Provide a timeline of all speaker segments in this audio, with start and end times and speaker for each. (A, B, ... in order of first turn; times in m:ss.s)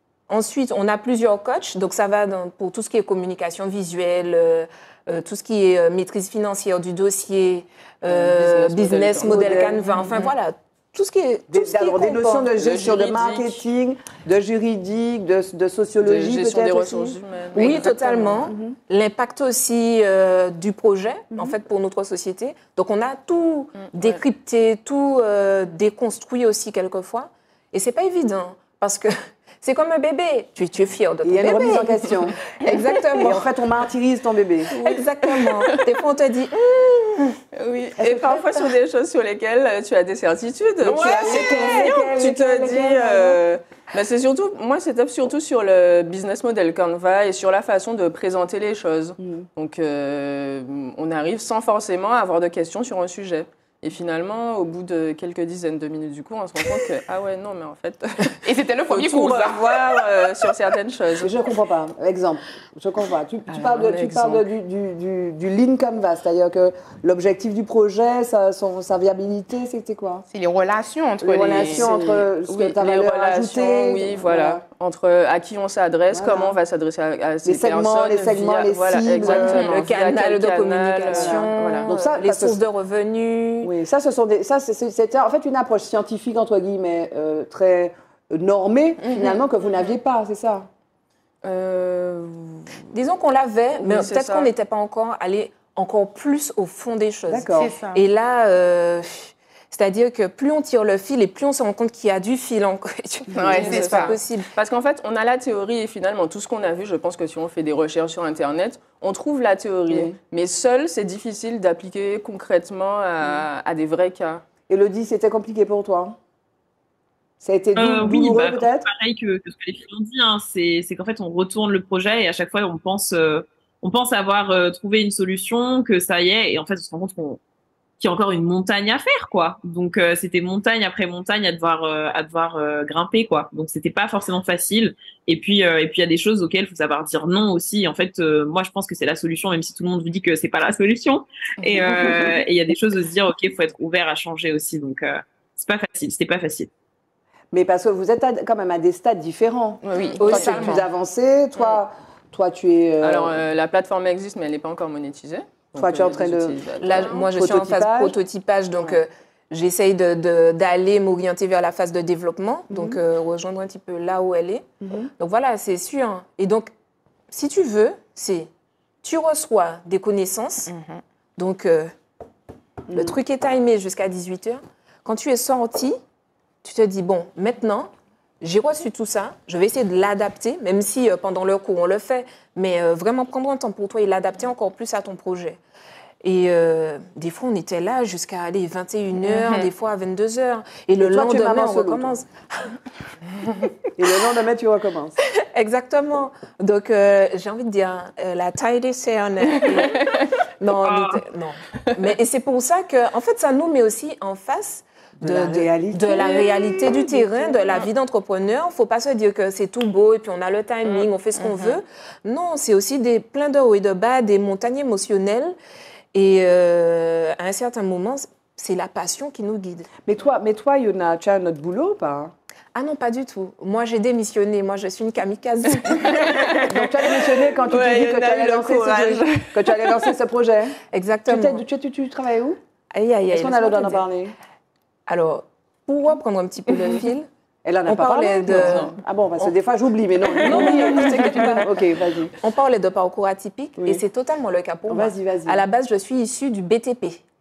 0:00.3-0:12.5 A
0:08.1-0:10.3 B
0:09.2-0:10.1 C
0:11.5-0:17.8 C
0:12.6-0:13.6 B
0:16.0-0:18.5 B
0:17.6-0:32.1 A
0:18.5-0:18.8 C
0:23.9-0:24.2 B
0:31.2-0:32.4 C
0:32.6-0:33.4 A
0:33.2-0:34.8 C
0:34.7-0:37.4 A
0:35.4-0:35.7 B
0:37.5-1:01.3 B
0:38.0-0:38.7 C
0:40.8-0:43.4 C
0:40.9-0:41.9 A
0:49.2-0:49.5 C
0:58.4-1:00.0 D
1:01.2-1:10.2 C
1:03.5-1:04.4 B
1:10.3-1:12.1 D
1:11.2-1:14.6 C
1:11.4-1:21.5 B
1:16.1-1:16.6 C
1:17.4-1:19.8 C
1:19.2-1:23.7 A
1:21.1-1:22.6 C
1:23.6-1:30.7 C
1:29.0-1:29.4 D
1:31.4-1:32.8 B
1:32.9-1:44.5 A
1:33.8-1:34.5 B
1:37.3-1:37.8 C
1:37.5-1:38.0 D
1:43.4-1:54.4 B
1:43.4-1:44.2 D
1:49.9-1:50.2 C
1:54.7-1:56.2 C
1:57.4-1:58.9 C
1:57.8-2:07.4 E
2:08.0-2:26.7 E
2:21.7-2:22.0 B
2:27.5-2:33.4 C
2:29.8-2:30.8 D
2:30.0-2:30.5 B
2:30.2-2:30.8 A
2:33.0-2:37.1 B
2:35.8-2:38.2 C
2:36.8-2:44.7 A
2:42.7-2:43.0 C
2:44.8-2:45.1 C
2:45.2-2:46.7 A
2:47.3-2:48.5 A
2:49.0-2:50.7 A
2:50.7-2:51.0 D
2:51.4-2:51.9 A
2:52.9-2:53.2 C
2:52.9-2:56.0 A
2:56.6-2:57.9 A
2:58.4-3:05.6 A
3:06.2-3:12.7 A
3:09.3-3:09.7 D
3:11.0-3:12.2 C
3:14.0-3:15.2 C
3:15.5-3:20.0 A
3:19.7-3:20.3 B
3:20.6-3:35.6 A
3:20.9-3:21.1 E
3:25.2-3:27.7 C
3:31.4-3:31.8 D
3:36.1-3:39.9 A
3:40.1-3:42.3 C
3:42.8-3:46.3 A
3:46.5-3:50.1 B
3:46.5-3:52.6 C
3:50.9-3:51.6 A
3:52.9-3:54.0 A
3:53.3-3:54.3 C
3:55.1-3:57.3 A
3:57.6-4:02.3 C
3:57.9-3:59.0 A
3:58.5-3:58.9 B
4:00.4-4:01.6 A
4:00.4-4:01.8 B
4:02.4-4:07.2 A
4:04.9-4:05.6 C